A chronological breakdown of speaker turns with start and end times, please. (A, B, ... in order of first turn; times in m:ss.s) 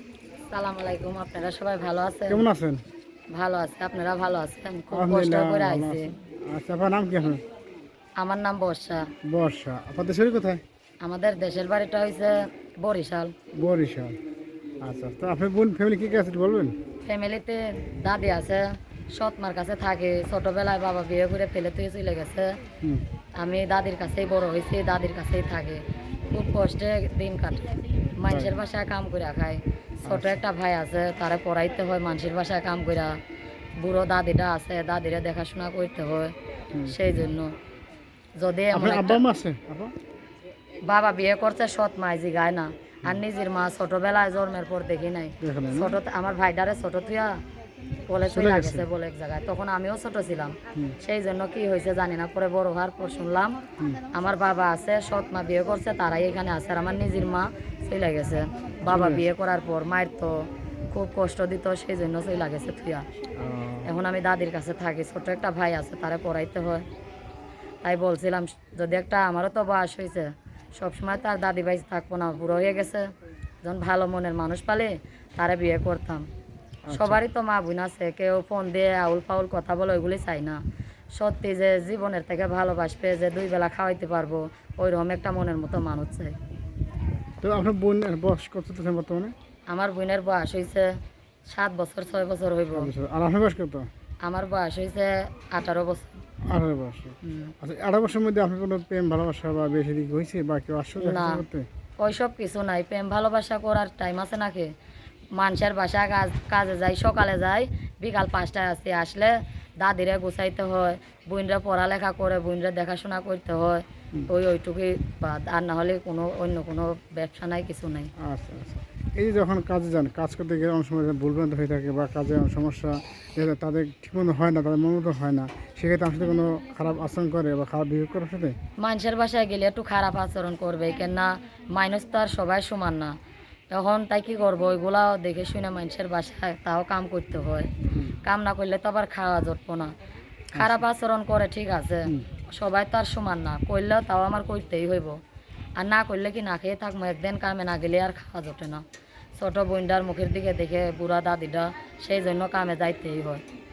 0:00.5-0:02.4 A
0:02.3-0:02.8 B
0:03.3-0:06.1 A
0:04.9-0:07.4 B
0:08.2-0:09.1 A
0:09.2-0:10.6 B
0:11.0-0:13.3 A
0:13.5-0:14.2 B
0:14.8-0:16.8 B
0:17.0-0:22.6 A
0:23.4-0:33.2 A
0:28.3-0:28.6 B
0:30.1-0:30.4 B
0:33.8-0:36.4 A
0:36.9-0:37.6 A
0:38.4-0:39.2 A
0:38.7-0:39.9 B
0:40.9-0:47.4 A
0:45.4-0:46.0 B
0:48.1-0:53.6 A
0:48.3-0:48.9 B
0:53.8-0:54.0 B
0:54.1-1:03.1 A
0:58.9-0:59.3 B
1:03.4-1:03.9 B
1:03.8-1:06.9 A
1:07.8-1:13.1 A
1:13.6-1:16.3 A
1:16.9-1:17.2 B
1:16.9-1:20.6 A
1:21.2-1:26.4 A
1:27.4-1:29.3 B
1:29.7-1:30.9 A
1:31.5-1:32.9 A
1:32.7-1:33.9 B
1:34.2-1:36.1 A
1:36.5-1:41.7 B
1:37.2-1:37.5 A
1:41.0-1:41.5 A
1:42.0-1:44.7 A
1:45.4-1:58.1 A
1:58.2-2:08.6 B
2:08.8-2:13.2 A
2:13.7-2:17.7 A
2:17.9-2:18.2 B
2:18.2-2:20.0 A
2:20.5-2:20.8 B
2:20.6-2:25.2 A
2:25.8-2:28.8 A
2:29.4-2:33.4 A